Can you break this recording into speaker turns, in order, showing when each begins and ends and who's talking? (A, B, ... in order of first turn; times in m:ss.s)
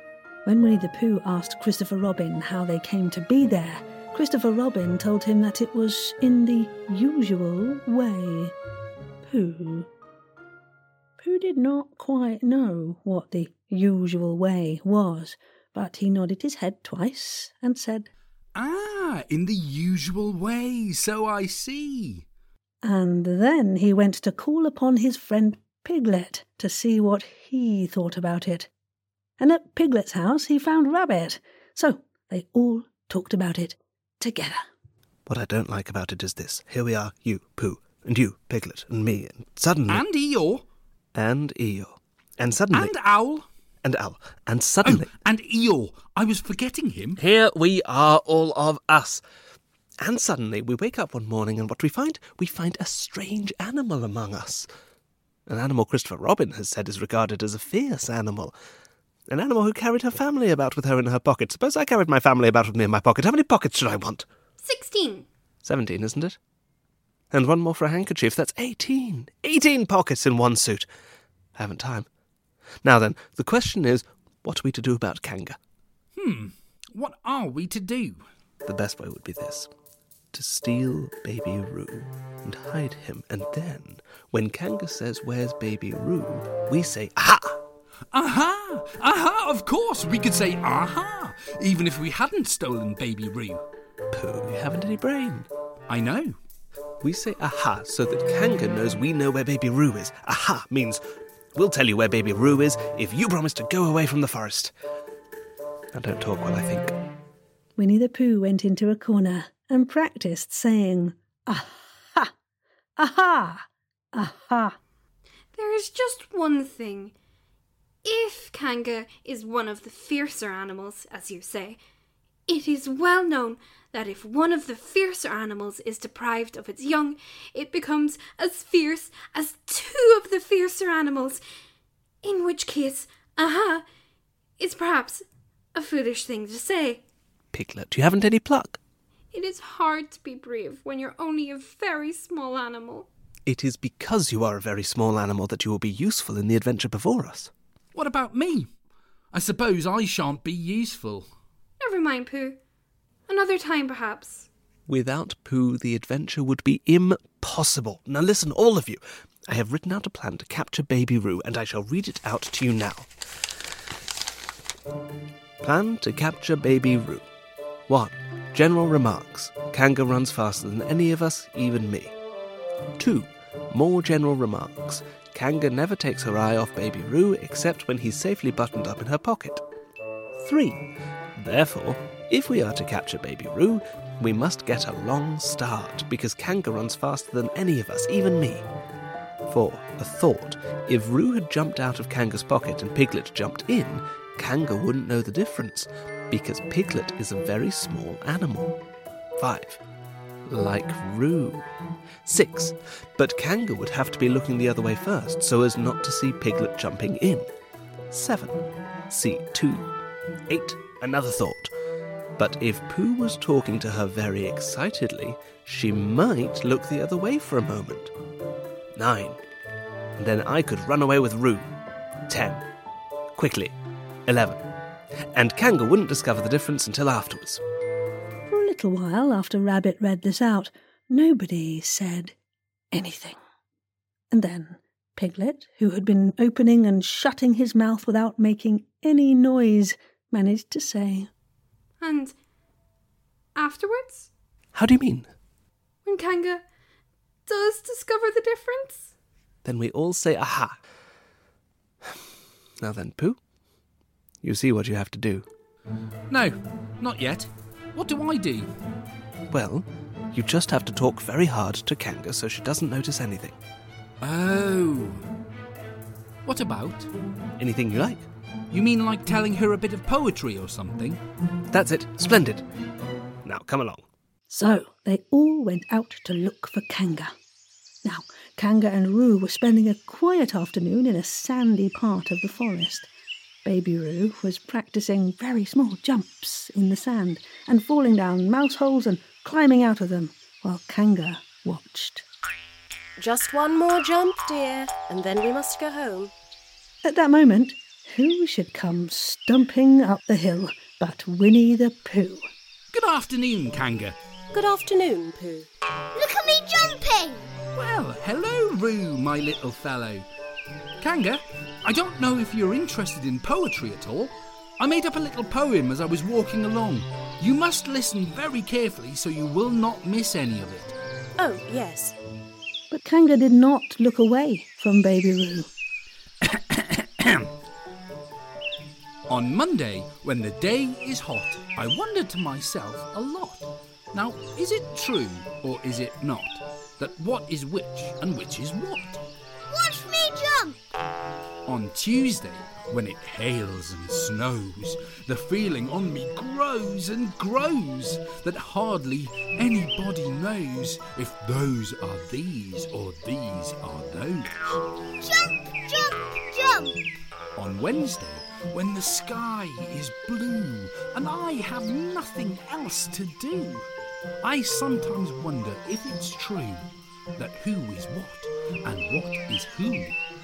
0:00.4-0:08.5 A
0:09.2-0:09.9 A
0:11.2-0:18.1 A
0:18.5-0:22.2 B
0:22.8-0:28.7 A
0:29.4-0:34.6 A
0:35.3-0:40.0 C
0:39.9-0:40.6 B
0:41.1-0:42.9 C
0:42.7-0:43.5 B
0:43.8-0:45.1 C
0:44.8-0:47.2 B
0:47.2-0:49.2 C
0:50.0-0:54.7 C
0:55.5-0:58.5 C
0:59.3-1:04.2 C
1:04.6-1:05.2 D
1:05.6-1:06.4 C
1:07.3-1:10.9 C
1:11.6-1:12.1 C
1:12.8-1:15.6 C
1:16.2-1:18.2 B
1:18.6-1:19.7 C
1:20.3-1:27.6 C
1:28.1-1:33.6 B
1:34.1-1:35.5 C
1:35.9-1:36.4 B
1:37.0-1:41.0 C
1:41.5-1:44.7 C
1:45.9-1:46.9 C
1:47.8-1:52.3 A
1:53.0-1:54.8 A
1:55.5-1:57.1 D
1:58.0-2:01.8 D
2:02.5-2:11.4 D
2:12.2-2:13.8 D
2:14.6-2:17.0 D
2:17.5-2:18.8 C
2:19.3-2:23.1 D
2:23.5-2:27.5 C
2:27.9-2:28.7 B
2:29.3-2:31.3 B
2:31.8-2:32.6 D
2:33.3-2:34.5 D
2:34.9-2:43.1 C
2:45.6-2:47.3 C
2:47.9-2:52.1 C
2:53.0-2:59.6 C
3:00.4-3:00.8 C
3:01.4-3:08.7 C
3:09.5-3:18.7 C
3:19.4-3:19.8 C
3:20.5-3:21.7 C
3:22.2-3:27.5 C
3:28.1-3:29.9 C
3:30.5-3:31.7 C
3:32.4-3:38.1 C
3:39.0-3:39.4 C
3:40.2-3:41.7 C
3:42.3-3:42.6 C
3:43.4-3:43.8 C
3:44.3-3:44.6 C
3:45.3-3:47.6 C
3:48.5-3:52.3 A
3:52.9-3:53.4 A
3:54.3-4:01.3 A
4:02.0-4:02.3 D
4:03.5-4:04.2 D
4:04.7-4:05.3 C
4:06.0-4:06.6 D
4:07.4-4:09.1 D
4:09.6-4:10.8 C
4:12.8-4:13.4 C
4:14.4-4:15.5 C
4:16.3-4:18.7 B
4:19.5-4:23.6 C
4:24.2-4:25.2 B
4:26.4-4:27.1 B
4:27.6-4:28.2 C
4:28.7-4:31.2 B
4:31.7-4:32.6 C
4:33.4-4:34.0 C
4:34.5-4:37.3 A
4:38.0-4:43.1 A
4:43.6-4:52.2 A
4:53.2-4:56.3 E
4:57.0-5:02.5 A
5:02.9-5:04.2 B
5:04.5-5:05.7 E
5:06.1-5:07.5 F
5:07.7-5:10.2 B
5:11.0-5:20.9 B
5:21.4-5:22.1 E
5:22.9-5:25.7 A
5:26.4-5:27.5 B
5:29.3-5:39.2 B
5:39.7-5:40.8 F
5:41.7-5:54.5 B
5:55.2-5:57.0 F
5:57.6-6:03.8 B
6:04.4-6:06.8 B
6:07.4-6:10.2 B